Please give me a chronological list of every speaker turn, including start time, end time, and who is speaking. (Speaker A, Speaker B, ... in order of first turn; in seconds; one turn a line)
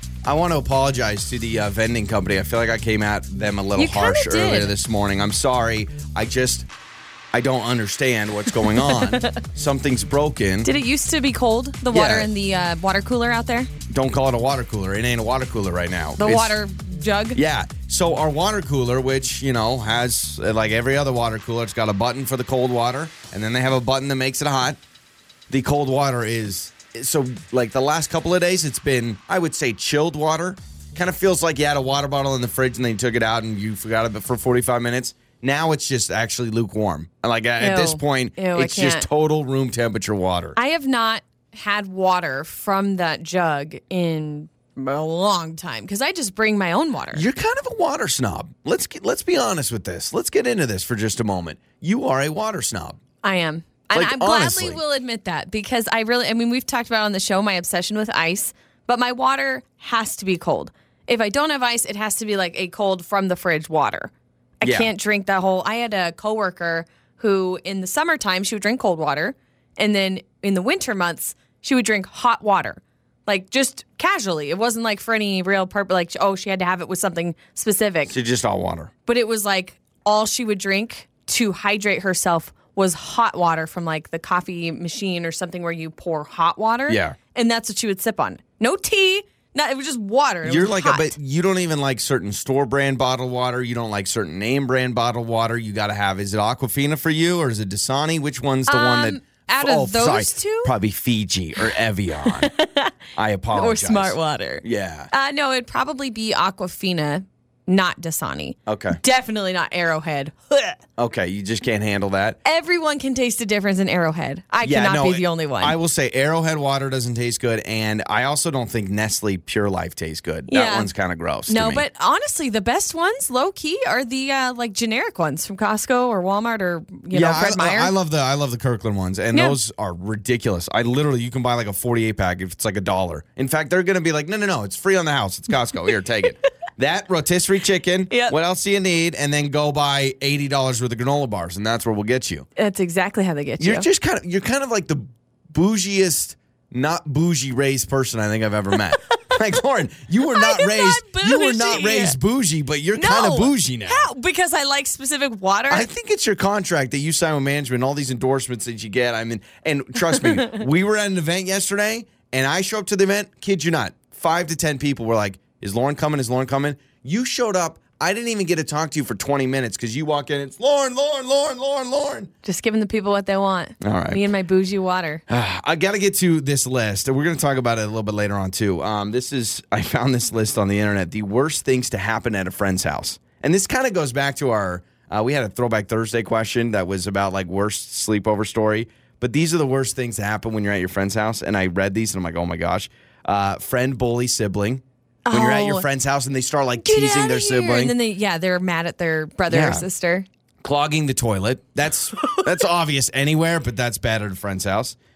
Speaker A: 0.3-6.7
Speaker B: 3.8-4.7
Speaker A: 7.3-10.7
Speaker B: 8.7-9.3
Speaker B: 10.6-13.7
Speaker A: 11.9-12.3
Speaker A: 13.9-16.6
Speaker B: 16.2-17.4
Speaker A: 17.3-24.8
Speaker A: 25.5-40.6
Speaker B: 37.6-39.1
Speaker B: 40.6-47.2
Speaker A: 47.1-53.0
Speaker B: 53.2-78.1
Speaker A: 53.9-54.8
Speaker A: 64.6-64.9
Speaker A: 78.1-78.9
Speaker B: 79.1-91.2
Speaker A: 86.9-87.2
Speaker A: 90.5-102.5
Speaker B: 98.7-100.7
Speaker B: 102.2-102.9
Speaker A: 103.1-105.1
Speaker B: 103.5-110.8
Speaker A: 108.7-109.0
Speaker A: 111.0-112.4
Speaker B: 112.5-115.8
Speaker A: 114.6-121.8
Speaker B: 120.5-120.9
Speaker B: 121.5-127.9
Speaker A: 127.1-142.5
Speaker B: 142.6-143.9
Speaker A: 143.6-154.1
Speaker B: 150.3-152.2
Speaker B: 152.9-155.9
Speaker A: 155.7-172.3
Speaker B: 160.1-160.6
Speaker B: 172.4-175.2
Speaker A: 173.8-174.2
Speaker A: 175.3-197.9
Speaker B: 195.2-195.9
Speaker B: 196.8-200.2
Speaker A: 199.5-199.8
Speaker A: 200.6-204.9